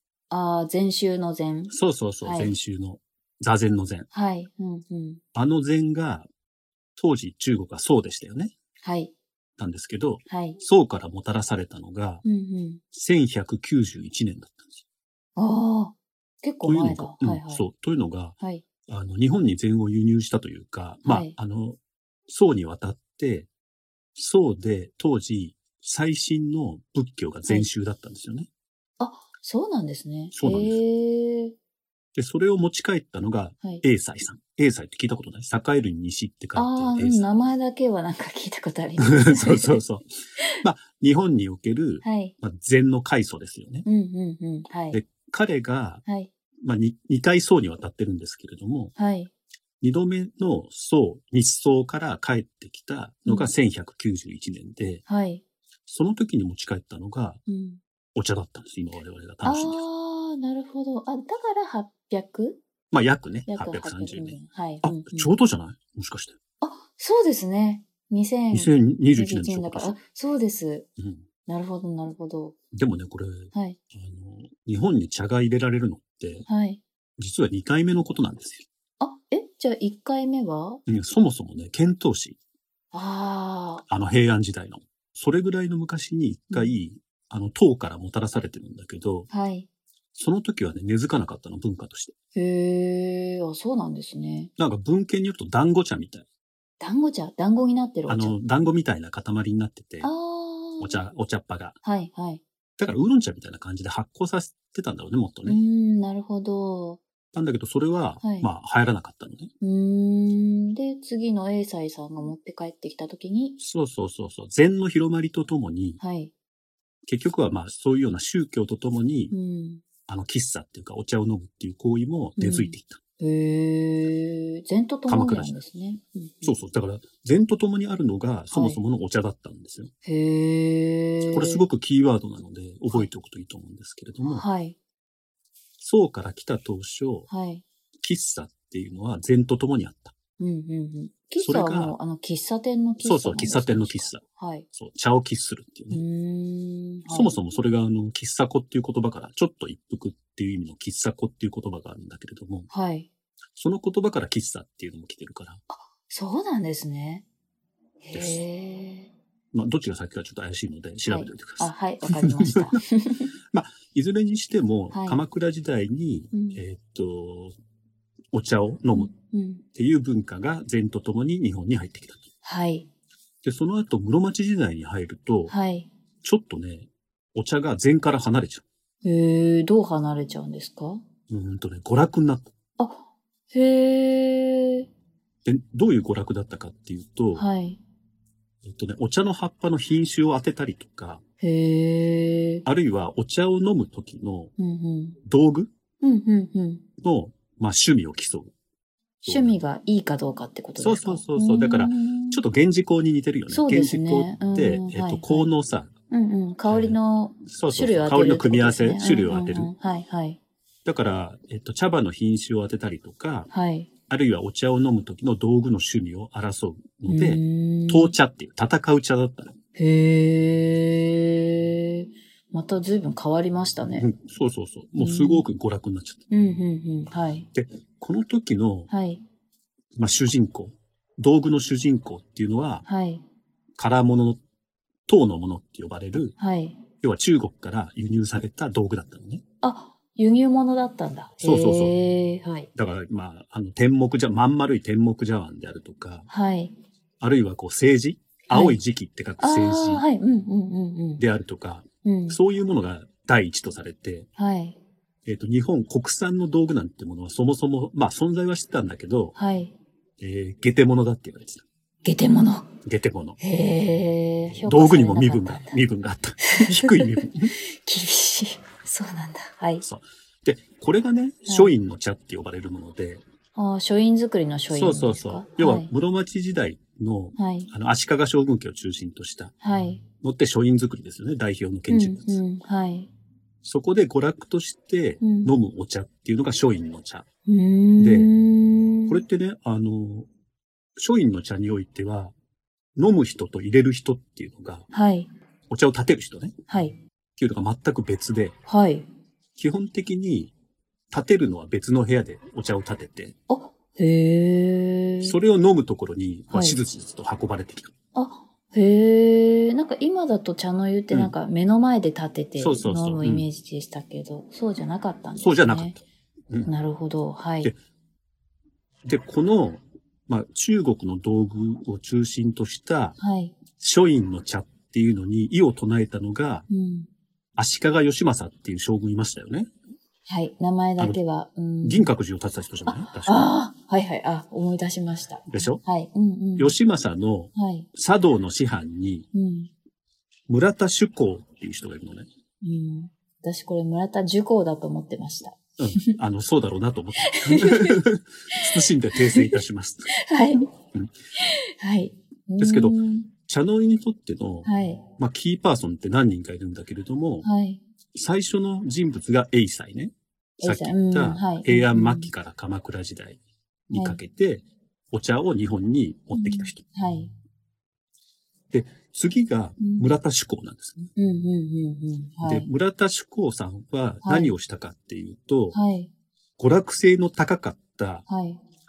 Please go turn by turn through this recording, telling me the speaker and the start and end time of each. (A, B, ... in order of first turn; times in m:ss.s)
0:00.3-0:02.6 A
0:01.7-0:04.1 B
0:04.1-0:05.2 A
0:05.4-0:06.3 B
0:07.0-0:08.5 B
0:08.8-0:09.1 A
0:09.6-0:12.2 B
0:10.3-0:10.6 A
0:12.2-0:12.8 A
0:12.9-0:14.8 B
0:15.4-0:17.7 A
0:16.6-0:23.5 B
0:21.0-0:21.3 A
0:24.2-0:28.5 B
0:29.0-0:31.6 A
0:30.3-0:30.8 B
0:32.2-0:37.2 B
0:36.6-0:39.8 A
0:39.0-0:40.1 B
0:40.6-0:43.9 B
0:42.0-0:42.3 A
0:43.8-0:45.0 A
0:44.9-0:46.0 B
0:46.1-0:46.3 A
0:46.6-0:48.9 B
0:49.0-0:49.3 A
0:49.8-0:55.0 B
0:53.3-0:53.5 A
0:55.1-0:55.4 A
0:55.9-0:57.4 B
0:57.5-0:57.8 A
0:58.2-0:59.8 B
0:59.4-1:02.6 A
1:02.9-1:06.4 B
1:03.5-1:05.3 A
1:06.6-1:10.9 A
1:08.5-1:10.0 B
1:11.0-1:11.2 B
1:11.5-1:12.6 A
1:12.7-1:16.5 B
1:13.5-1:13.8 A
1:16.5-1:16.8 A
1:17.2-1:18.6 B
1:19.0-1:20.8 A
1:20.9-1:22.4 B
1:22.9-1:23.9 A
1:23.9-1:29.3 B
1:29.3-1:29.7 A
1:30.2-1:32.1 B
1:32.4-1:34.5 A
1:34.6-1:36.2 B
1:36.8-1:38.4 A
1:38.1-1:40.1 B
1:40.0-1:41.0 A
1:40.8-1:41.8 B
1:41.8-1:42.4 A
1:42.8-1:45.6 B
1:45.5-1:47.0 A
1:47.3-1:49.5 B
1:48.2-1:48.5 A
1:49.6-1:53.6 A
1:53.6-1:56.0 B
1:56.0-1:56.3 A
1:57.1-1:59.3 B
1:59.3-1:59.8 A
2:00.1-2:03.0 B
2:02.4-2:06.6 A
2:05.1-2:05.6 B
2:06.4-2:09.9 B
2:08.5-2:08.8 A
2:10.0-2:11.6 A
2:11.3-2:14.4 B
2:14.2-2:14.8 A
2:15.8-2:17.3 B
2:17.3-2:17.6 A
2:18.0-2:20.1 B
2:20.4-2:24.7 A
2:21.4-2:22.0 B
2:23.0-2:24.2 B
2:24.8-2:26.0 B
2:25.9-2:27.4 A
2:27.1-2:32.7 B
2:32.7-2:33.1 A
2:33.6-2:35.6 B
2:35.7-2:37.2 A
2:38.0-2:39.1 A
2:38.1-2:38.4 B
2:39.5-2:42.8 B
2:41.1-2:43.3 A
2:43.5-2:47.6 B
2:44.9-2:45.2 A
2:46.3-2:46.6 A
2:48.3-2:49.1 B
2:48.9-2:49.6 A
2:49.8-2:52.3 B
2:52.4-2:52.9 A
2:53.4-2:55.5 B
2:55.5-2:55.9 A
2:56.2-2:58.6 B
2:59.0-3:01.0 A
3:01.3-3:02.5 B
3:02.8-3:04.9 A
3:05.4-3:07.4 B
3:07.4-3:07.8 A
3:08.6-3:11.2 B
3:11.4-3:12.7 A
3:12.7-3:14.5 B
3:14.6-3:15.2 A
3:15.2-3:15.7 B
3:16.0-3:16.8 A
3:17.0-3:18.5 B
3:19.2-3:19.6 B
3:19.2-3:22.4 A
3:20.8-3:25.9 B
3:23.5-3:25.5 A
3:26.1-3:30.4 A
3:26.7-3:29.7 B
3:30.8-3:33.5 B
3:33.5-3:33.9 A
3:34.1-3:39.6 B
3:37.1-3:38.2 A
3:39.8-3:44.1 A
3:44.0-3:46.2 B
3:45.0-3:45.4 A
3:46.3-3:47.5 A
3:47.5-3:48.9 B
3:48.9-3:49.2 A
3:50.0-3:52.8 B
3:52.9-3:53.2 A
3:53.8-3:54.4 B
3:55.1-3:56.4 B
3:56.4-3:56.8 A
3:57.0-3:59.4 B
3:59.6-4:02.7 A
4:01.4-4:02.0 B
4:02.8-4:06.3 B
4:06.3-4:06.7 A
4:07.2-4:10.0 B
4:08.5-4:08.8 A
4:09.4-4:11.2 A
4:11.2-4:14.3 B
4:12.0-4:12.4 A
4:14.4-4:14.8 A
4:15.2-4:19.3 B
4:19.4-4:19.7 A
4:20.2-4:21.6 B
4:22.0-4:22.7 A
4:22.8-4:23.4 B
4:23.4-4:25.8 A
4:24.6-4:27.5 B
4:26.4-4:29.8 A
4:29.8-4:33.2 B
4:31.5-4:31.7 A
4:33.6-4:35.9 A
4:34.7-4:39.5 B
4:37.4-4:37.7 A
4:39.6-4:40.0 A
4:40.2-4:42.4 B
4:41.9-4:43.1 A
4:43.6-4:47.3 B
4:45.2-4:45.5 A
4:47.5-4:49.2 A
4:48.0-4:48.3 B
4:49.1-4:50.3 B
4:51.0-4:52.3 B
4:53.0-4:54.9 B
4:54.9-4:55.3 A
4:55.7-4:56.6 B
4:56.7-4:57.0 A
4:57.4-4:58.6 B
4:58.7-4:59.1 A
4:59.6-5:00.5 B
5:01.1-5:03.4 B
5:03.5-5:05.4 A
5:05.2-5:07.9 B
5:06.5-5:06.8 A
5:08.2-5:16.0 A
5:12.6-5:13.5 B
5:15.4-5:16.7 B
5:16.7-5:17.7 A
5:19.0-5:23.2 B
5:23.2-5:23.6 A
5:23.8-5:26.7 B
5:26.7-5:27.1 A
5:27.6-5:29.7 B
5:30.3-5:32.1 A
5:31.8-5:33.4 B
5:32.9-5:36.8 A
5:35.5-5:35.8 B
5:36.6-5:39.3 B
5:37.6-5:37.9 A
5:39.3-5:39.7 A
5:40.5-5:42.3 B
5:42.6-5:46.2 A
5:45.8-5:50.1 B
5:47.2-5:48.0 A
5:48.5-5:50.7 A
5:51.4-5:53.3 A
5:52.6-5:57.5 B
5:54.6-5:55.0 A
5:57.4-5:57.8 A
5:58.2-6:06.8 B
6:00.6-6:02.3 A
6:03.9-6:04.2 A
6:06.3-6:07.3 A
6:08.7-6:11.1 B
6:09.8-6:10.1 A
6:11.2-6:12.7 A
6:12.4-6:15.8 B
6:14.2-6:14.5 A
6:15.7-6:16.1 A
6:16.6-6:18.3 B
6:18.3-6:18.6 A